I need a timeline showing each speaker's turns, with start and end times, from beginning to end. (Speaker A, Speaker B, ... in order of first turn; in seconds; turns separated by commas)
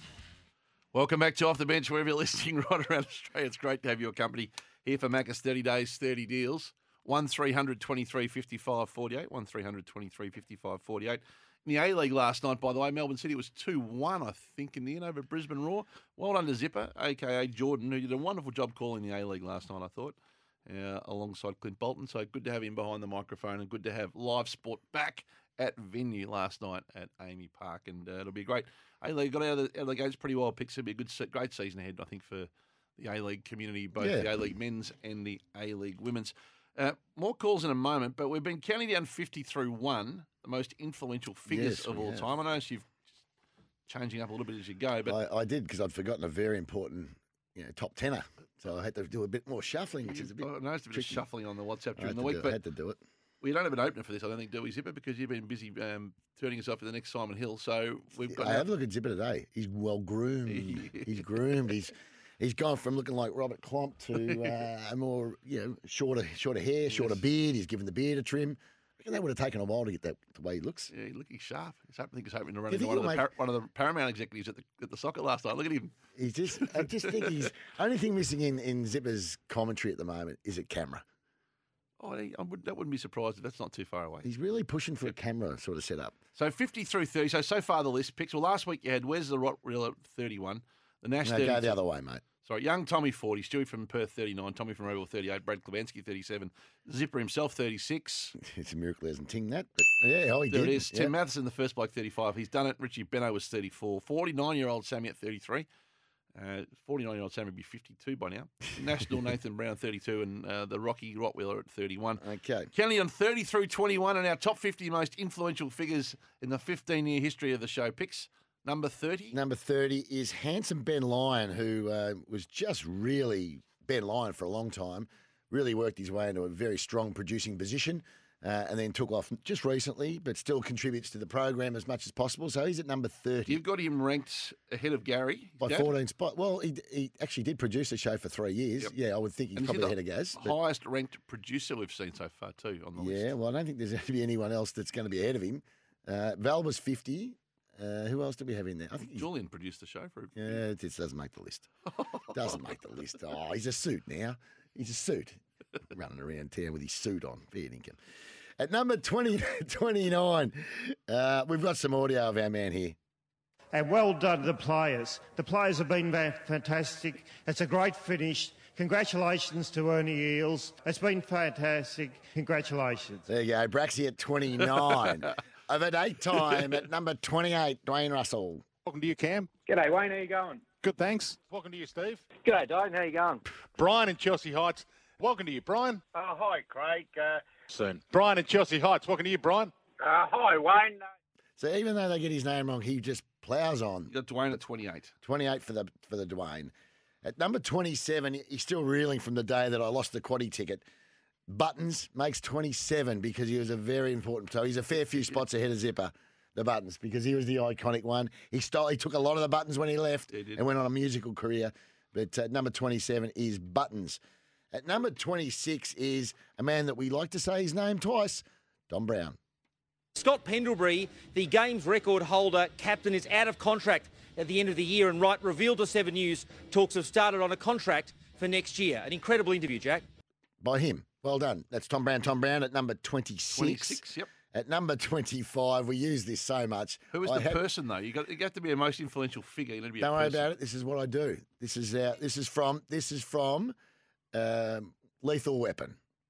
Speaker A: 0.9-42.9, Speaker B: 34.0-34.4, Speaker B: 41.5-42.3, Speaker A: 43.9-45.1, Speaker B: 45.1-51.2, Speaker A: 50.1-52.6, Speaker B: 52.0-53.0, Speaker A: 53.4-58.7, Speaker B: 58.3-70.9, Speaker A: 60.5-61.2, Speaker A: 66.9-67.2, Speaker A: 70.9-76.0, Speaker B: 72.7-73.2, Speaker B: 76.2-81.0, Speaker A: 76.6-77.5, Speaker A: 82.0-84.3, Speaker B: 84.2-86.2, Speaker A: 86.3-91.8, Speaker B: 91.2-92.2, Speaker A: 92.4-98.3, Speaker B: 98.4-101.1, Speaker A: 100.5-105.7, Speaker A: 106.3-112.2, Speaker B: 112.2-112.7, Speaker A: 112.7-119.4, Speaker B: 119.3-133.6, Speaker A: 133.5-135.9, Speaker B: 135.6-140.6, Speaker A: 139.6-143.3, Speaker B: 143.0-149.3, Speaker A: 149.2-150.6, Speaker B: 150.4-151.7, Speaker A: 151.9-152.6, Speaker B: 152.3-155.4, Speaker B: 155.9-158.0, Speaker B: 158.6-163.0, Speaker C: 163.7-173.2, Speaker B: 173.3-178.7, Speaker D: 178.8-179.5, Speaker E: 179.7-180.7, Speaker D: 180.8-182.2, Speaker E: 182.4-183.4, Speaker D: 183.8-186.0, Speaker E: 186.1-187.4, Speaker D: 187.7-189.7, Speaker E: 190.0-191.1, Speaker B: 191.6-194.1, Speaker A: 194.1-195.1, Speaker B: 195.2-196.7, Speaker B: 197.2-200.8, Speaker B: 201.5-214.2, Speaker A: 210.3-210.6, Speaker B: 214.7-219.4, Speaker F: 220.2-230.1, Speaker B: 230.6-234.0, Speaker A: 233.5-234.3, Speaker B: 234.5-237.6, Speaker A: 237.1-240.5, Speaker B: 240.0-243.7, Speaker B: 244.3-246.0